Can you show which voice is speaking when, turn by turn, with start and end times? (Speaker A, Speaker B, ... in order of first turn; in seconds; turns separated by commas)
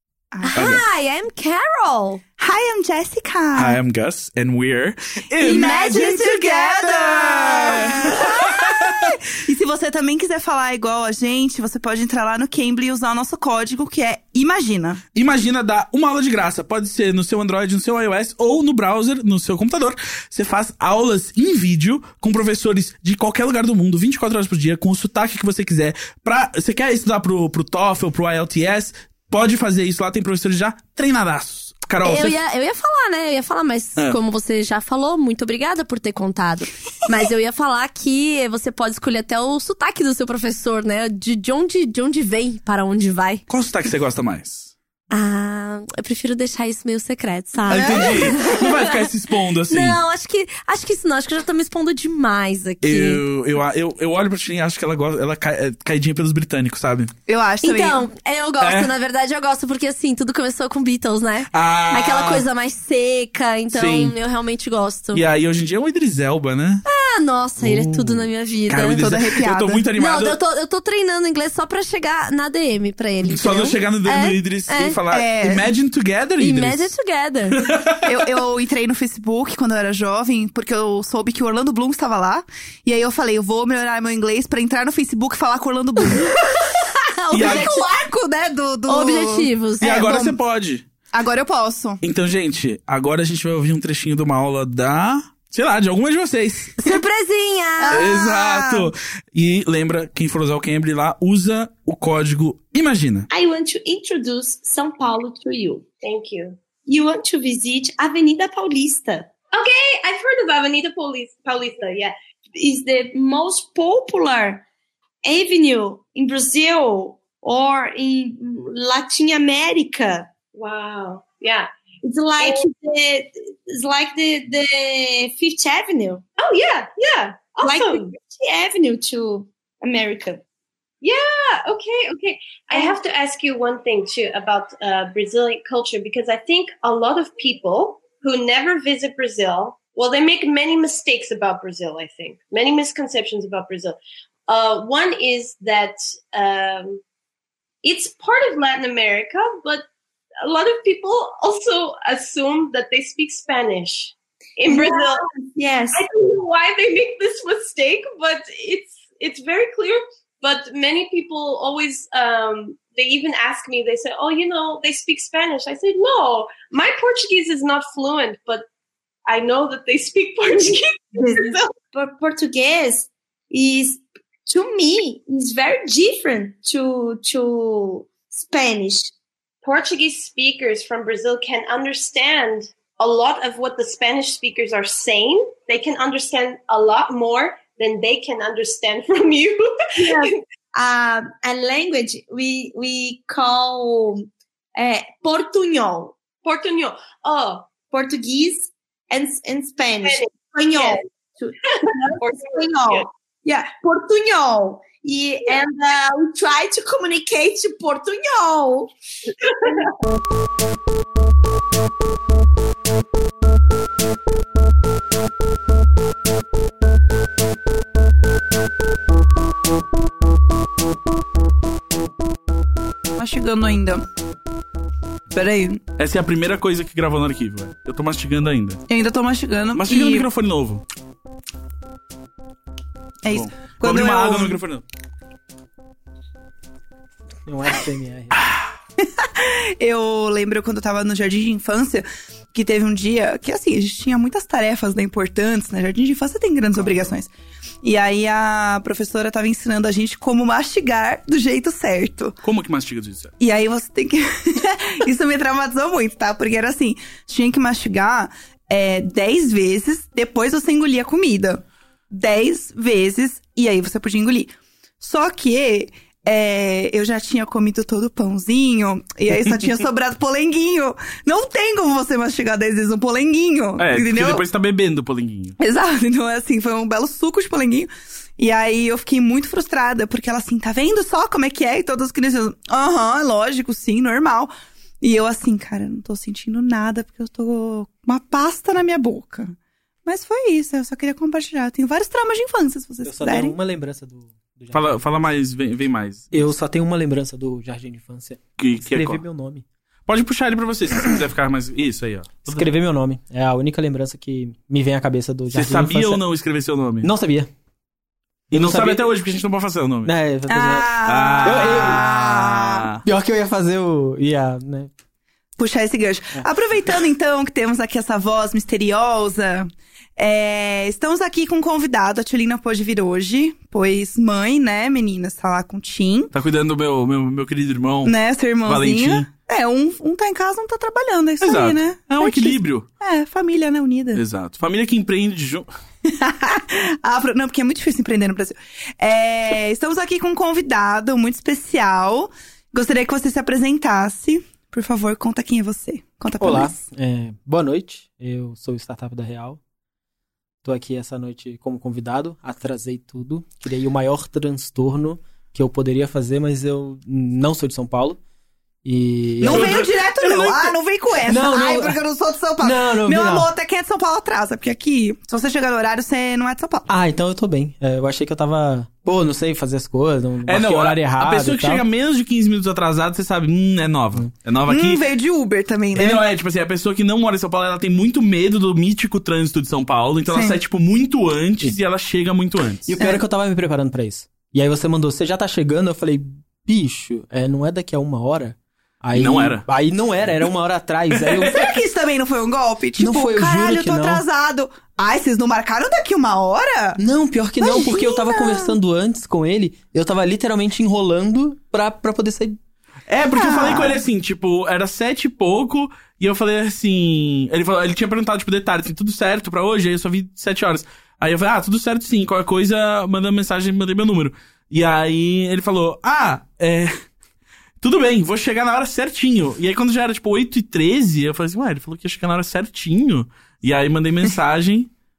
Speaker A: 0.3-0.7, Speaker B: 0.4-2.2, Speaker C: 0.5-0.8, Speaker A: 2.4-3.8, Speaker C: 3.5-9.2, Speaker A: 5.4-15.0, Speaker B: 5.4-6.5, Speaker C: 15.1-32.4, Speaker B: 32.0-43.4, Speaker C: 43.5-44.7, Speaker B: 45.1-49.1, Speaker C: 47.7-50.0, Speaker A: 47.7-48.4, Speaker B: 49.7-53.2, Speaker C: 52.8-57.1, Speaker A: 57.3-58.1, Speaker B: 57.6-65.2, Speaker C: 58.6-58.9, Speaker C: 61.5-62.5, Speaker C: 63.7-64.2, Speaker C: 65.1-66.8, Speaker B: 66.9-69.1, Speaker C: 67.6-70.4, Speaker A: 69.0-69.9, Speaker B: 70.0-75.0, Speaker C: 73.2-76.9, Speaker A: 75.1-75.7, Speaker B: 76.4-77.6, Speaker C: 77.5-78.3, Speaker A: 78.1-86.7, Speaker B: 86.0-87.9, Speaker C: 87.3-87.7, Speaker A: 87.3-90.4, Speaker B: 88.9-90.0, Speaker C: 89.8-90.8, Speaker A: 91.1-92.0, Speaker C: 92.0-96.8, Speaker B: 96.8-98.1, Speaker A: 97.8-98.9, Speaker C: 97.9-103.3, Speaker D: 103.3-105.9, Speaker E: 106.0-106.6, Speaker D: 106.9-109.3, Speaker E: 109.5-112.2, Speaker D: 112.5-114.7, Speaker D: 115.2-120.3, Speaker E: 120.5-121.7, Speaker D: 122.0-126.2, Speaker E: 122.4-122.7, Speaker E: 126.4-128.1, Speaker D: 127.6-130.4, Speaker E: 131.0-147.0, Speaker D: 132.7-133.0, Speaker E: 147.8-149.8, Speaker E: 150.4-155.3, Speaker D: 154.7-156.0, Speaker E: 155.9-168.7, Speaker E: 169.3-171.6, Speaker D: 171.2-179.1, Speaker E: 179.6-190.4, Speaker D: 190.0-196.2, Speaker E: 196.4-197.7, Speaker D: 197.8-208.9, Speaker E: 200.0-201.0, Speaker E: 201.7-203.1, Speaker E: 209.4-209.9, Speaker A: 223.2-224.1, Speaker A: 225.3-225.8, Speaker C: 226.0-228.8, Speaker A: 228.9-230.3, Speaker C: 229.8-230.8, Speaker A: 233.2-234.6, Speaker C: 233.3-234.8, Speaker F: 237.5-238.4, Speaker A: 239.0-247.3, Speaker C: 246.8-247.2, Speaker A: 247.8-252.4, Speaker C: 252.4-253.3, Speaker A: 253.4-274.4, Speaker C: 273.8-275.6, Speaker A: 275.6-293.6, Speaker F: 293.0-295.1, Speaker C: 294.7-296.5, Speaker F: 296.3-299.7, Speaker C: 298.6-299.2, Speaker C: 300.1-302.7, Speaker F: 302.5-306.2, Speaker C: 305.5-307.1, Speaker F: 307.0-307.5, Speaker F: 308.5-309.1, Speaker C: 308.5-310.1, Speaker F: 310.1-312.1, Speaker A: 310.5-312.9, Speaker C: 311.1-313.0, Speaker F: 313.1-314.9, Speaker A: 315.6-326.3, Speaker C: 326.3-329.3, Speaker A: 328.1-334.2, Speaker C: 331.4-332.9, Speaker C: 334.1-335.7, Speaker A: 336.1-346.8, Speaker F: 346.4-349.6, Speaker F: 350.6-358.2, Speaker F: 358.8-359.8, Speaker C: 359.4-360.7, Speaker A: 359.4-366.9, Speaker F: 361.3-362.0, Speaker F: 362.6-363.5, Speaker F: 366.9-371.9, Speaker C: 370.4-375.0, Speaker A: 374.7-376.2, Speaker C: 375.9-382.9, Speaker A: 380.3-380.6, Speaker F: 382.9-391.7, Speaker C: 389.1-389.7, Speaker A: 391.4-397.0, Speaker F: 393.0-394.2, Speaker F: 397.0-402.6, Speaker A: 397.6-398.7, Speaker C: 403.1-416.9, Speaker A: 403.3-404.0, Speaker C: 417.8-424.9